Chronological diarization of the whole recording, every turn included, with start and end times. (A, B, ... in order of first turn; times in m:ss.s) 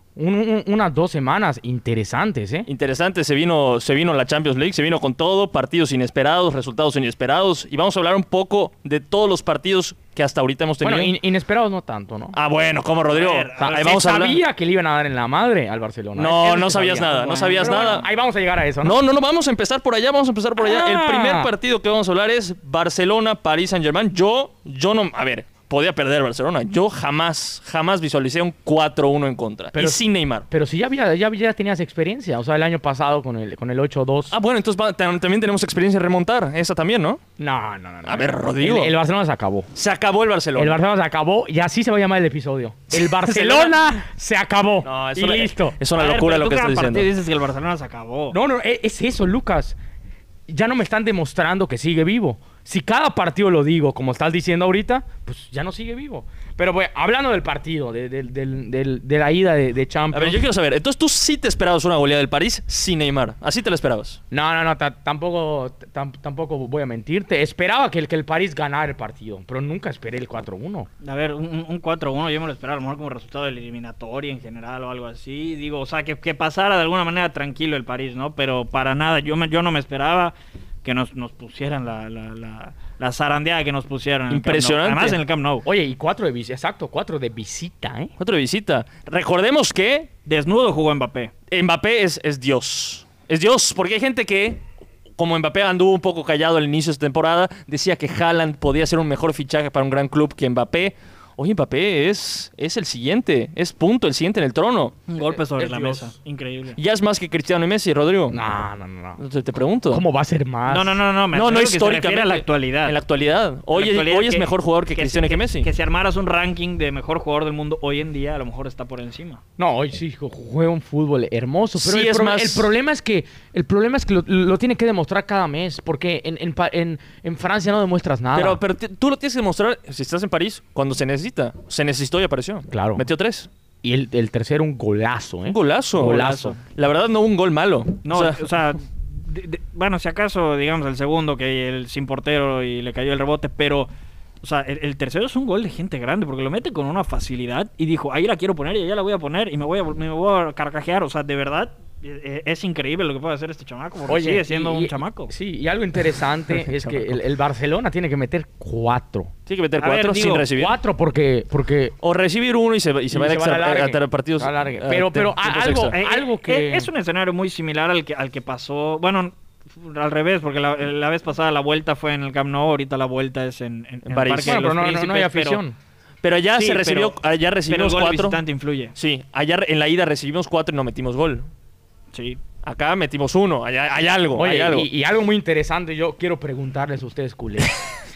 0:00.2-0:02.7 A
0:02.7-0:11.1 B
0:10.8-0:12.4 A
0:12.3-0:14.4 B
0:13.1-0:14.0 C
0:13.6-0:19.0 A
0:16.2-0:18.1 B
0:18.8-0:30.5 B
0:20.6-0:21.5 A
0:29.7-0:34.4 A
0:34.3-0:37.2 B
0:37.4-0:39.7 A
0:38.1-0:39.0 B
0:39.7-0:40.8 B
0:40.6-0:45.8 A
0:42.9-0:43.8 B
0:44.8-0:47.1 B
0:46.0-0:48.4 C
0:48.3-0:49.8 A
0:50.5-1:00.4 A
1:00.1-1:04.2 B
1:04.3-1:10.9 A
1:11.0-1:25.6 C
1:24.3-1:25.2 B
1:25.6-1:28.1 A
1:28.2-1:30.1 B
1:30.3-1:31.3 C
1:31.5-1:34.6 B
1:35.2-1:45.0 B
1:45.1-1:46.8 C
1:45.2-1:46.1 A
1:46.8-1:48.4 B
1:48.3-1:49.2 A
1:49.2-1:50.0 B
1:49.9-1:51.0 A
1:50.7-1:53.0 C
1:51.3-1:55.7 B
1:53.7-1:59.4 C
1:59.6-2:08.6 A
2:01.8-2:02.7 B
2:08.4-2:13.5 B
2:12.7-2:13.1 A
2:13.8-2:16.6 A
2:15.5-2:18.4 B
2:16.0-2:16.6 C
2:18.0-2:23.9 C
2:24.4-2:35.3 C
2:34.1-2:39.3 A
2:36.5-2:37.1 B
2:39.5-2:40.8 B
2:39.8-2:40.5 C
2:40.6-2:42.0 A
2:42.0-2:46.0 B
2:43.1-2:46.9 A
2:45.9-2:55.6 C
2:54.0-2:54.6 B
2:54.5-2:55.8 A
2:56.2-2:58.4 B
2:56.6-2:57.2 C
2:57.7-2:58.9 C
2:59.0-3:01.5 B
3:02.1-3:02.4 C
3:02.6-3:04.9 B
3:04.4-3:07.8 A